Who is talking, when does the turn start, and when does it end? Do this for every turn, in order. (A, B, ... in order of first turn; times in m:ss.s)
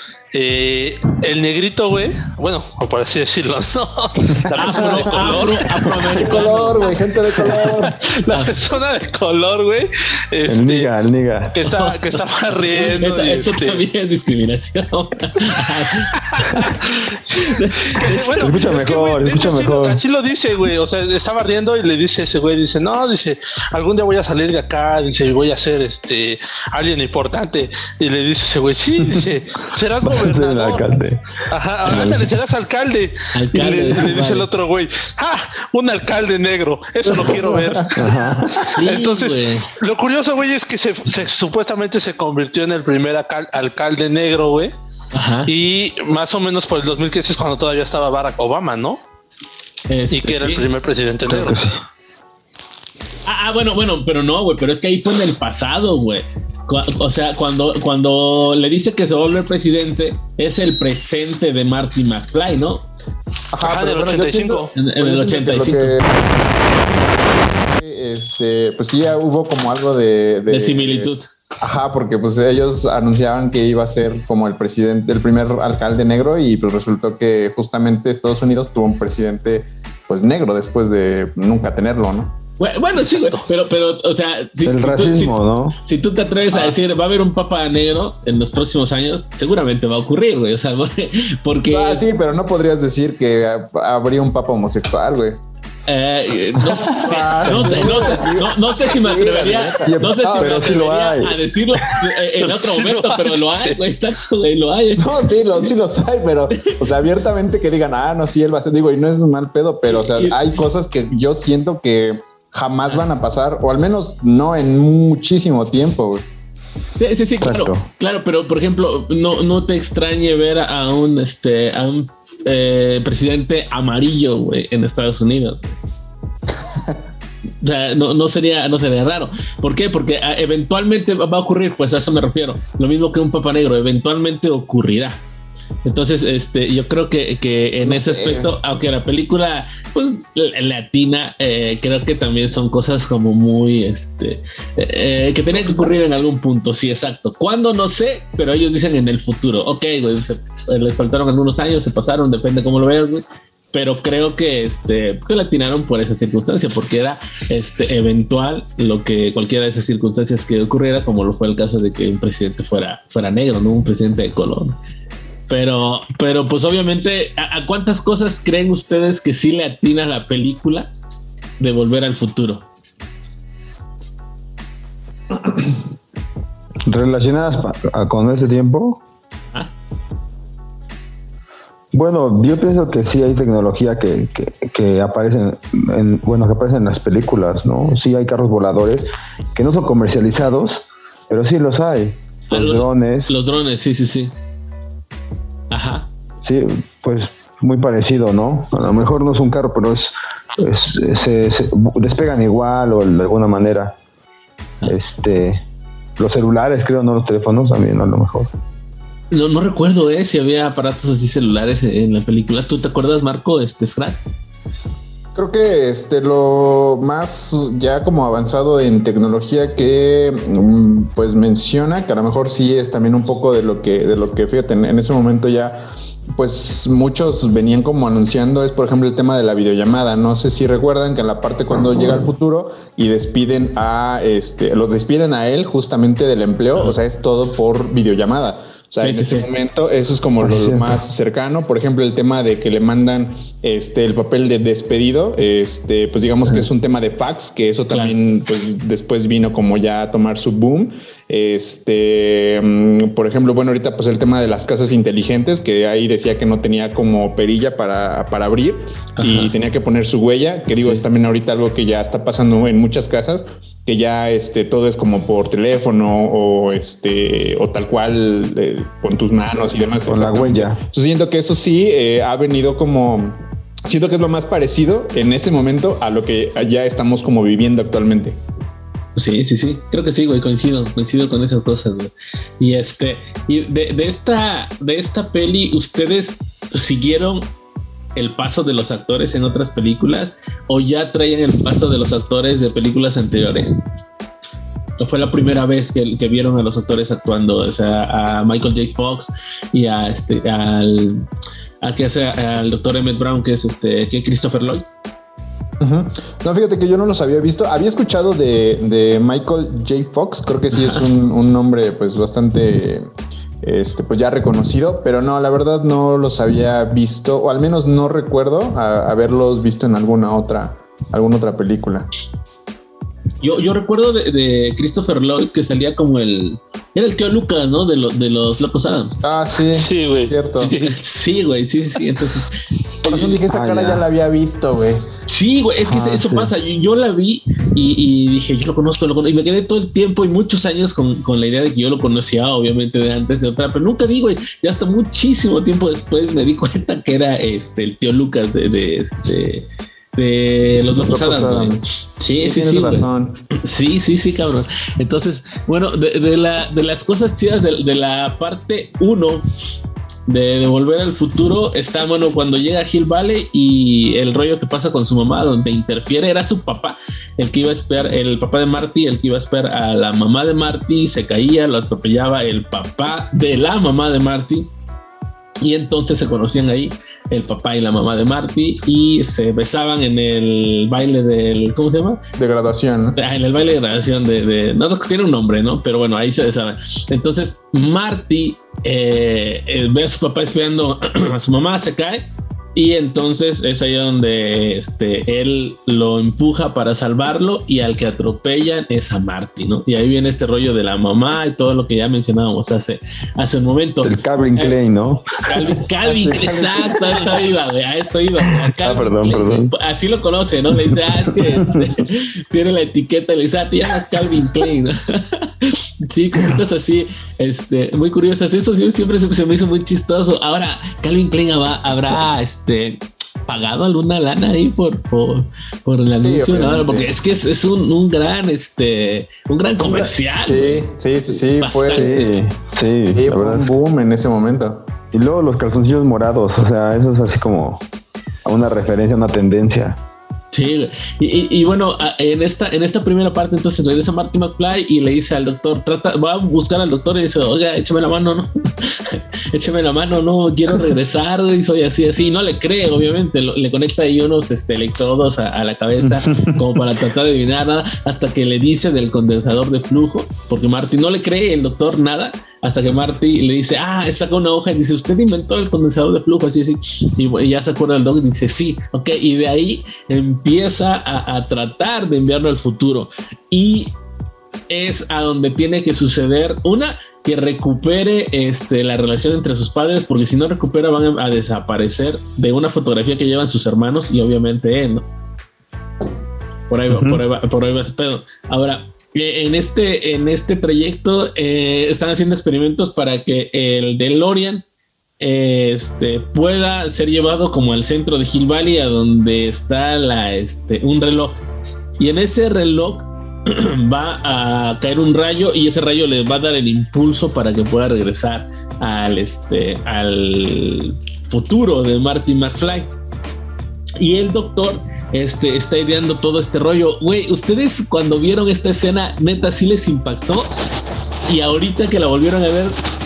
0:00.3-0:06.3 A
0:04.3-0:05.6 B
0:04.5-0:06.9 C
0:06.1-0:08.0 B
0:07.4-0:10.9 A
0:08.3-0:08.5 C
0:10.5-0:11.6 D
0:11.5-0:13.8 A
0:11.6-0:12.0 C
0:12.7-0:16.7 C
0:16.2-0:31.0 A
0:17.4-0:18.1 C
0:18.4-0:20.0 D
0:30.0-0:32.3 D
0:31.5-0:44.7 A
0:33.3-0:34.5 C
0:38.0-0:38.5 D
0:38.5-0:39.7 C
0:45.1-0:45.5 C
0:45.5-0:49.0 A
0:49.9-0:50.6 C
0:50.1-0:51.6 A
0:51.2-0:51.8 D
0:53.2-1:02.8 C
1:03.5-1:06.3 B
1:03.6-1:04.7 A
1:04.8-1:06.0 C
1:07.7-1:11.1 B
1:10.5-1:11.2 C
1:11.6-1:22.4 B
1:22.6-1:32.0 C
1:23.0-1:23.4 A
1:24.6-1:25.8 D
1:31.7-1:35.4 B
1:35.9-1:45.3 C
1:36.7-1:40.8 B
1:37.5-1:38.0 D
1:39.8-1:42.1 D
1:42.4-1:43.8 A
1:45.0-1:56.2 B
1:49.9-1:50.4 C
1:57.0-2:05.6 C
1:57.4-1:57.8 D
2:07.6-2:15.2 C
2:15.8-2:44.8 C
2:17.8-2:18.5 B
2:25.5-2:25.9 B
2:45.5-2:50.9 C
2:51.6-2:52.6 C
2:56.9-2:59.0 D
3:01.9-3:13.3 D
3:12.5-3:14.3 C
3:15.7-3:16.1 C
3:16.4-3:24.0 D
3:24.9-3:25.6 D
3:26.2-3:28.5 D
3:29.3-3:34.2 C
3:35.4-3:45.8 B
3:46.4-4:38.4 B
3:59.0-3:59.5 C
4:00.4-4:01.0 D
4:07.9-4:08.2 C
4:19.2-4:19.5 C
4:30.0-4:30.8 D
4:39.2-4:47.5 C
4:48.2-4:53.8 C
4:55.0-5:01.2 C
5:01.8-5:04.9 C
5:05.8-5:13.1 B
5:10.7-5:11.1 C
5:13.6-5:22.1 B
5:23.4-5:29.2 C
5:29.2-5:30.7 B
5:29.7-5:31.0 A
5:30.6-5:33.4 C
5:33.0-5:35.0 B
5:33.5-5:34.1 D
5:35.3-5:59.5 C
5:35.9-5:36.5 D
5:51.1-5:53.4 B
6:00.3-6:14.7 C
6:15.6-6:22.2 C
6:22.4-6:23.2 B
6:23.2-6:44.8 C
6:44.0-6:45.6 D
6:45.4-7:10.9 C
6:46.0-6:47.3 B
6:48.7-6:49.7 D
6:51.4-6:51.9 D
7:06.2-7:07.1 B
7:09.8-7:12.2 B
7:11.6-7:12.4 C
7:11.9-7:13.7 D
7:13.2-7:14.9 B
7:15.1-7:17.8 D
7:18.4-7:20.0 D
7:20.5-7:53.9 C
7:36.1-7:36.6 D
7:54.7-8:05.1 C
8:06.7-8:14.6 C
8:06.9-8:07.2 D
8:15.2-8:21.4 C
8:22.0-8:32.9 C
8:34.0-8:40.5 C
8:41.2-8:42.8 C